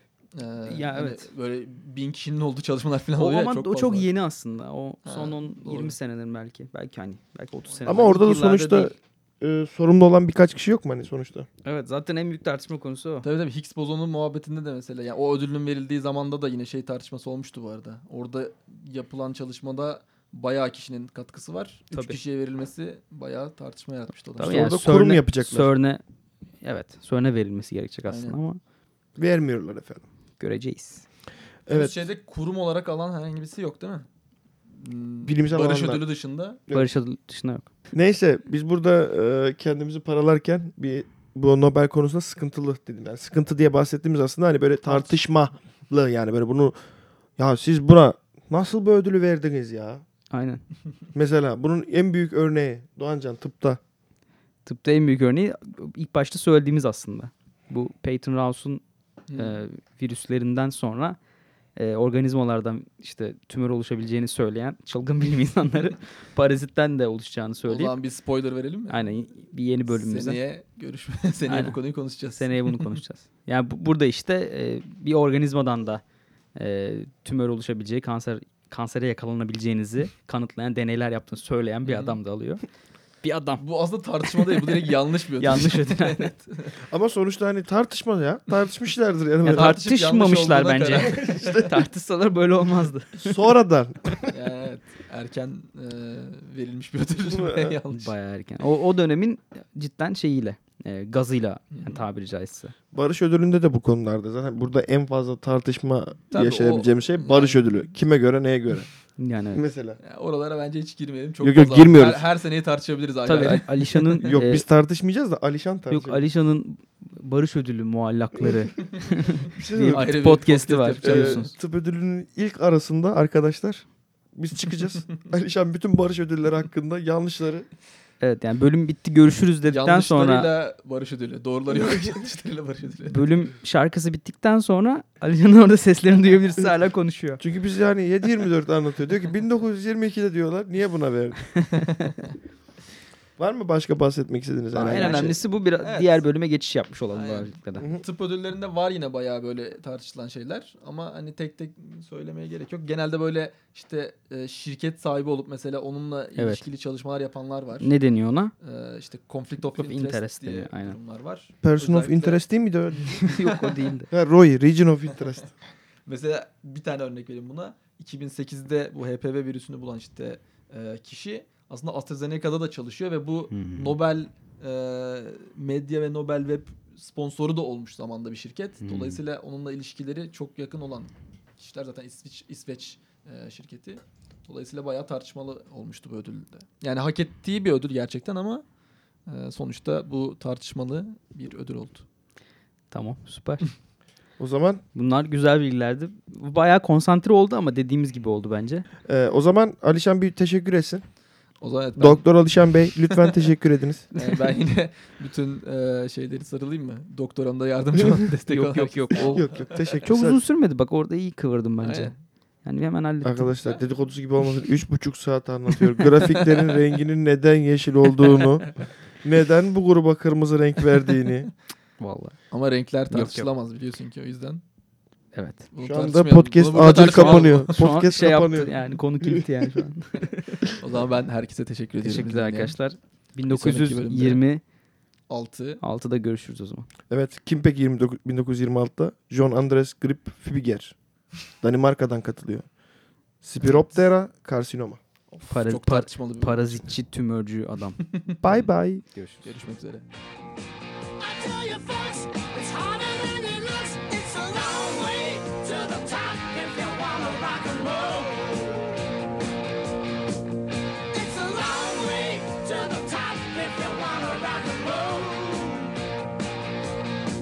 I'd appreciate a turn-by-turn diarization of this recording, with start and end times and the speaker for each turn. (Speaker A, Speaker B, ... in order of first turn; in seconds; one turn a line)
Speaker A: 0.3-4.1
Speaker B: 0.7-1.3
Speaker B: 3.2-8.9
Speaker A: 5.0-5.9
Speaker A: 7.7-8.1
Speaker C: 7.9-11.5
Speaker B: 11.6-13.3
Speaker A: 13.2-24.5
Speaker B: 21.9-22.2
Speaker B: 24.4-26.0
Speaker C: 24.4-25.7
Speaker B: 26.6-28.6
Speaker A: 28.1-28.4
Speaker C: 29.1-30.0
Speaker B: 30.4-31.0
Speaker C: 31.7-32.1
Speaker A: 31.7-34.1
Speaker A: 34.7-36.6
Speaker C: 35.2-36.0
Speaker B: 36.7-37.7
Speaker C: 37.9-46.8
Speaker A: 44.9-45.1
Speaker C: 47.4-50.0
Speaker B: 50.3-50.6
Speaker C: 51.1-53.8
Speaker B: 54.6-58.8
Speaker A: 59.3-59.6
Speaker B: 59.3-61.2
Speaker B: 61.8-67.9
Speaker A: 67.6-69.1
Speaker B: 68.9-70.4
Speaker A: 69.9-73.0
Speaker B: 71.5-71.8
Speaker B: 72.3-76.0
Speaker B: 76.5-82.6
Speaker A: 81.8-82.2
Speaker B: 83.2-83.6
Speaker A: 83.6-86.7
Speaker B: 84.4-84.7
Speaker B: 85.4-86.3
Speaker C: 86.9-89.8
Speaker B: 89.4-93.3
Speaker A: 89.5-91.7
Speaker C: 91.0-91.7
Speaker C: 93.2-94.3
Speaker A: 94.3-98.1
Speaker C: 97.3-97.7
Speaker B: 97.9-102.7
Speaker A: 101.7-102.0
Speaker C: 102.9-108.9
Speaker A: 106.3-107.6
Speaker B: 109.2-109.6
Speaker C: 109.5-110.0
Speaker A: 110.0-114.4
Speaker C: 111.4-112.3
Speaker B: 113.2-114.6
Speaker C: 114.2-116.2
Speaker B: 115.9-121.5
Speaker C: 118.4-118.7
Speaker C: 119.5-120.1
Speaker A: 119.8-121.4
Speaker C: 121.0-127.7
Speaker B: 128.2-130.5
Speaker A: 129.6-133.2
Speaker B: 133.1-137.4
Speaker C: 137.4-141.5
Speaker C: 143.4-145.4
Speaker A: 144.8-146.2
Speaker B: 144.8-147.9
Speaker A: 147.1-157.9
Speaker C: 147.8-148.0
Speaker B: 156.4-156.6
Speaker B: 157.8-158.5
Speaker A: 158.6-162.4
Speaker B: 159.7-161.0
Speaker C: 161.6-163.2
Speaker B: 163.2-164.1
Speaker A: 163.2-163.9
Speaker C: 164.1-165.5
Speaker A: 165.2-165.5
Speaker A: 166.1-188.6
Speaker B: 173.5-173.9
Speaker B: 178.8-179.2
Speaker A: 189.3-192.0
Speaker B: 192.9-193.7
Speaker C: 194.4-194.8
Speaker B: 194.9-198.8
Speaker C: 199.1-201.0
Speaker A: 201.6-203.3
Speaker C: 202.0-204.1
Speaker A: 204.1-210.1
Speaker B: 208.5-209.4
Speaker C: 209.2-210.4
Speaker B: 210.0-212.1
Speaker A: 211.8-212.2
Speaker B: 212.6-213.5
Speaker C: 213.2-218.7
Speaker C: 219.2-221.5
Speaker B: 222.0-222.3
Speaker A: 222.5-224.6
Speaker B: 223.1-223.5
Speaker B: 225.3-225.7
Speaker A: 225.7-227.8
Speaker C: 225.8-229.6
Speaker B: 226.8-230.5
Speaker A: 230.7-232.8
Speaker B: 232.0-234.6
Speaker A: 233.5-234.4
Speaker A: 235.3-235.8
Speaker B: 235.8-236.9
Speaker C: 237.1-240.9
Speaker C: 241.6-242.7
Speaker C: 243.4-245.0
Speaker A: 243.6-243.9
Speaker A: 245.3-246.9
Speaker B: 245.5-248.0
Speaker A: 248.1-248.4
Speaker C: 248.4-249.0
Speaker B: 249.1-249.4
Speaker A: 249.4-250.0
Speaker D: 251.2-258.9
Speaker D: 261.1-265.9